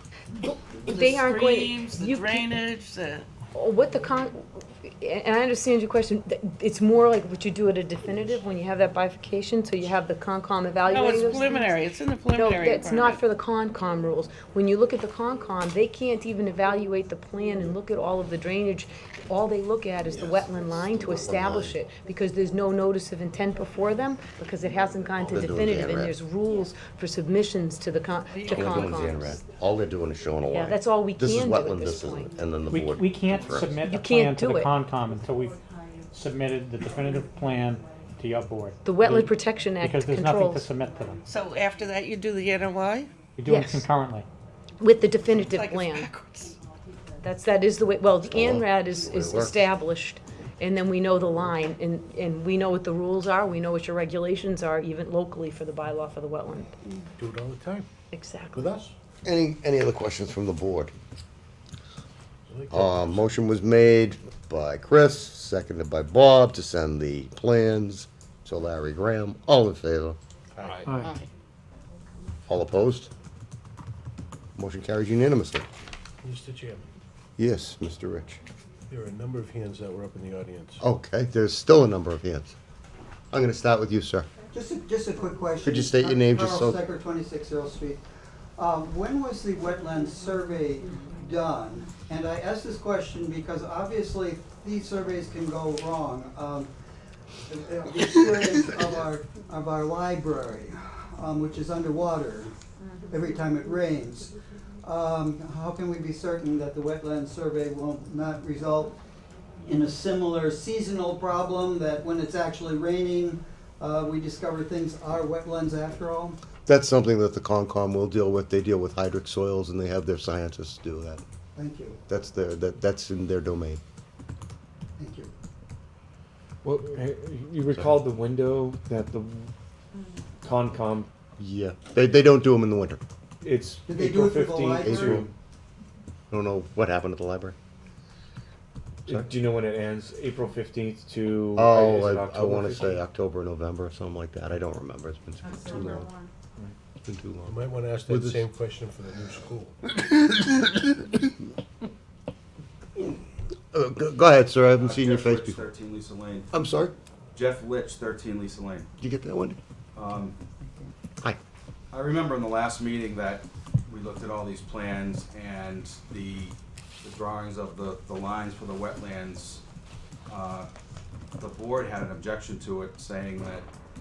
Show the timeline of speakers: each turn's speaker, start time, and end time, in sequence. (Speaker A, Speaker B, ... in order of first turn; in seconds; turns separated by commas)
Speaker A: 0.4-2.5, Speaker B: 0.9-3.3, Speaker A: 3.5-11.8, Speaker B: 10.9-13.2, Speaker A: 12.3-29.4, Speaker C: 20.1-21.8, Speaker C: 25.3-26.2, Speaker B: 28.3-28.9, Speaker C: 28.5-33.7, Speaker A: 30.5-32.3, Speaker D: 32.7-41.2, Speaker A: 33.8-34.7, Speaker A: 38.8-40.7, Speaker B: 41.2-43.1, Speaker D: 43.4-44.3, Speaker A: 43.5-43.9, Speaker A: 44.8-46.1, Speaker B: 45.5-46.6, Speaker A: 47.2-56.7, Speaker C: 48.3-49.7, Speaker E: 57.2-57.9, Speaker A: 58.1-58.8, Speaker E: 58.5-58.9, Speaker C: 59.2-60.9, Speaker E: 62.5-63.3, Speaker C: 62.7-70.2, Speaker E: 70.6-70.9, Speaker C: 72.5-73.1, Speaker C: 74.6-75.7, Speaker E: 76.2-76.9, Speaker C: 77.4-78.4, Speaker E: 78.9-80.8, Speaker C: 80.8-82.5, Speaker C: 83.3-84.3, Speaker F: 84.5-88.0, Speaker C: 85.7-86.8, Speaker F: 88.6-96.7, Speaker F: 97.5-102.5, Speaker F: 103.1-109.0, Speaker F: 109.7-116.4, Speaker C: 116.7-121.2, Speaker F: 121.6-122.0, Speaker C: 122.1-123.8, Speaker F: 125.0-125.3, Speaker G: 126.6-129.5, Speaker G: 130.4-131.1, Speaker C: 131.4-133.0, Speaker G: 133.4-135.2, Speaker F: 133.9-135.3, Speaker C: 134.8-135.3, Speaker C: 136.3-137.6, Speaker G: 139.1-143.0, Speaker C: 141.6-146.1, Speaker C: 147.1-148.4, Speaker E: 147.5-149.7, Speaker C: 153.7-155.6, Speaker H: 154.8-156.5, Speaker C: 156.5-156.9, Speaker H: 157.3-158.9, Speaker C: 159.0-159.6, Speaker H: 159.9-160.4, Speaker H: 161.9-169.6, Speaker H: 170.3-170.7, Speaker H: 171.4-173.7